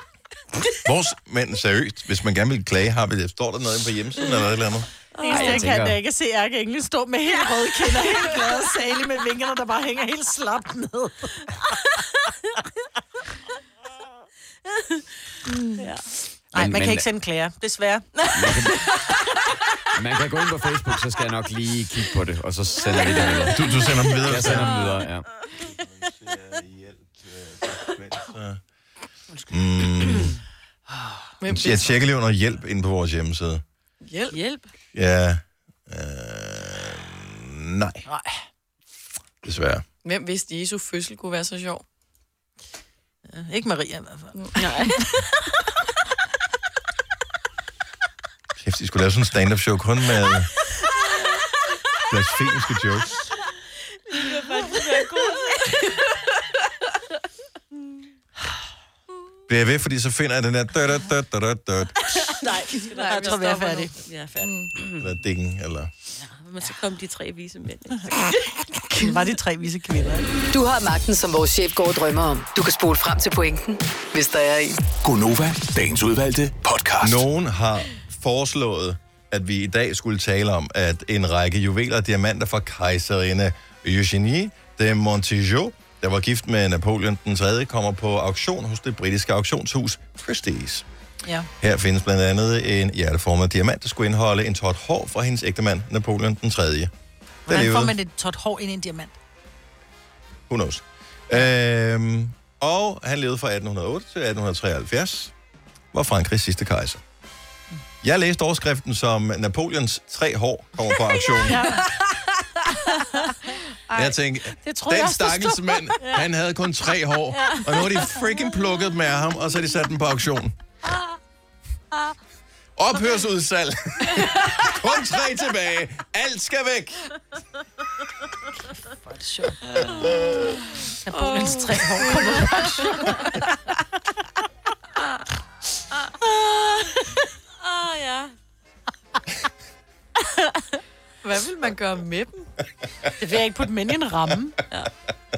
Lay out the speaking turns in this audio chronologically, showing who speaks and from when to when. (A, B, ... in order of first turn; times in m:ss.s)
0:00.8-0:04.9 A
0:05.2-0:05.7 B
0:05.2-0:11.6 C
0:05.3-0:06.0 D
0:15.5-0:15.8 B
0:15.8-0:16.0 E
0:16.5-0:18.1 C
0:16.5-0:17.1 D
0:18.3-0:18.7 D
0:19.9-0:25.2 D
0:23.4-0:24.7 A
0:24.6-0:24.9 E
0:26.0-0:28.6 A
0:29.5-0:30.4 A
0:30.1-0:30.3 E
0:31.4-0:32.0 B
0:31.4-0:33.6 A
0:34.0-0:34.4 B
0:34.3-0:34.7 E
0:34.9-0:38.0 A
0:38.1-0:38.4 C
0:39.4-0:39.8 A
0:40.0-0:41.8 B
0:43.3-0:45.0 C
0:44.4-0:45.0 B
0:48.6-0:50.5 A
0:52.1-0:53.1 A
0:54.1-0:56.0 E
0:59.5-1:02.2 A
1:02.2-1:05.1 E
1:02.8-1:03.8 B
1:03.0-1:03.9 C
1:04.4-1:04.7 B
1:05.0-1:05.9 A
1:06.2-1:08.3 E
1:08.7-1:10.3 C
1:10.5-1:14.8 F
1:15.0-1:17.2 G
1:17.0-1:30.8 A
1:31.2-1:31.5 C
1:31.6-1:36.9 A
1:37.5-1:38.0 A
1:37.5-1:39.2 C
1:40.5-1:45.3 A
1:45.9-1:47.0 A
1:48.0-1:51.7 A
1:51.4-1:53.5 C
1:53.9-1:54.1 B
1:53.9-2:00.6 A
1:54.6-1:56.2 C
1:57.4-1:57.9 C
2:02.8-2:07.1 A
2:08.9-2:09.9 C
2:09.8-2:10.3 E
2:11.0-2:13.4 C
2:11.1-2:13.4 B
2:17.6-2:18.3 E
2:21.2-2:22.5 B
2:23.2-2:24.6 C